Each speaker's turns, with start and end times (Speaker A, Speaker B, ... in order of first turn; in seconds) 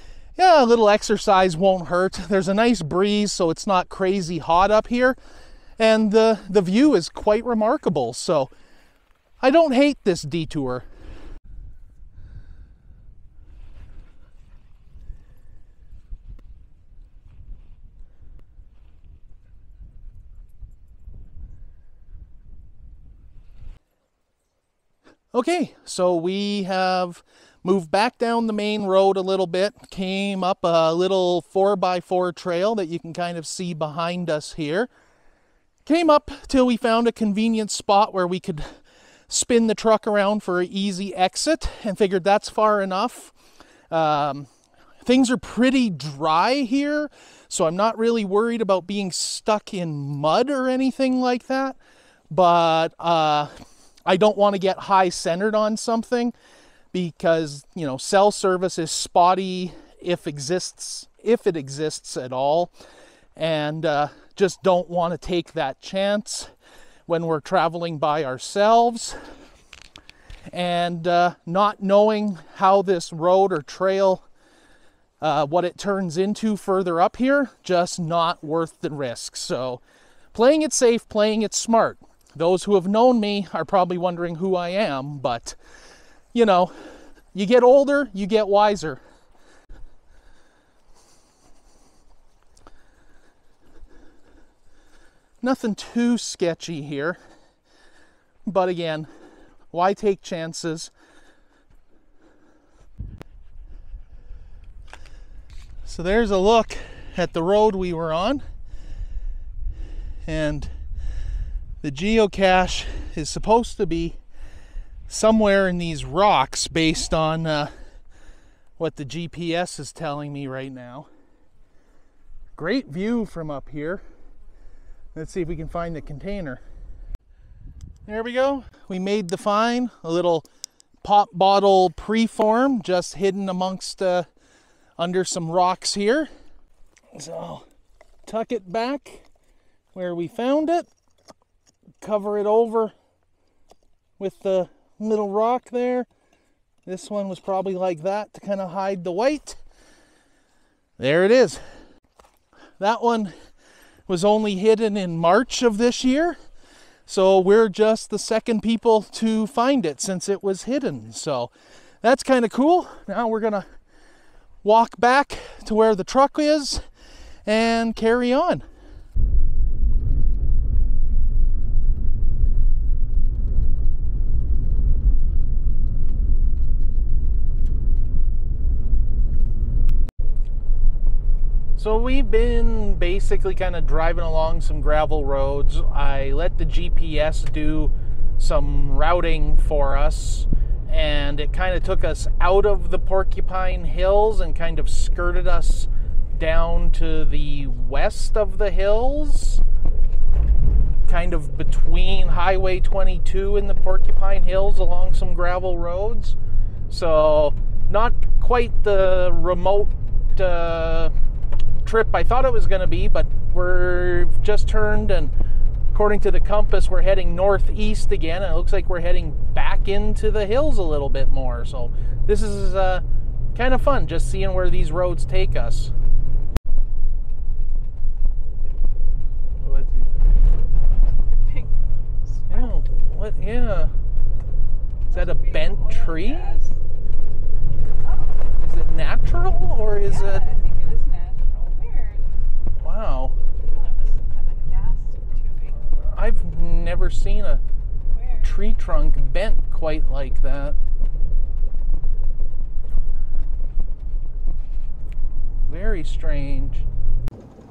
Speaker A: 0.4-5.2, 5.8-8.5, 9.4-10.9, 25.3-34.9, 35.9-38.7, 39.3-43.3, 43.9-44.5, 45.0-51.8, 52.3-53.5, 54.1-56.3, 56.9-62.7, 63.4-66.5, 67.1-69.2, 70.5-74.3, 75.2-79.8, 80.3-85.6, 86.3-89.0, 95.4-97.2, 98.5-99.1, 99.7-100.9, 105.9-108.4, 110.3-110.7, 111.8-114.2, 115.1-117.7, 118.8-121.1, 122.6-124.0, 125.2-126.6, 128.1-130.5, 131.0-134.3, 135.0-136.3, 137.1-137.7, 138.3-139.3, 139.9-140.9, 142.0-142.9, 144.2-146.1, 146.9-149.6, 151.0-151.6, 152.8-153.3, 154.1-156.4, 157.1-161.5, 162.0-163.7, 164.6-166.8, 167.5-168.6, 181.8-199.6, 201.1-206.4, 206.9-211.1, 211.8-215.3, 215.9-223.0, 223.6-225.9, 229.6-230.1, 232.5-233.9, 235.1-236.6, 238.6-240.5, 242.8-243.4, 245.8-247.6, 248.4-250.8, 255.7-256.9
Speaker B: 230.9-232.8, 235.1-236.8, 238.0-238.5, 240.0-242.3, 243.6-245.9, 248.1-248.6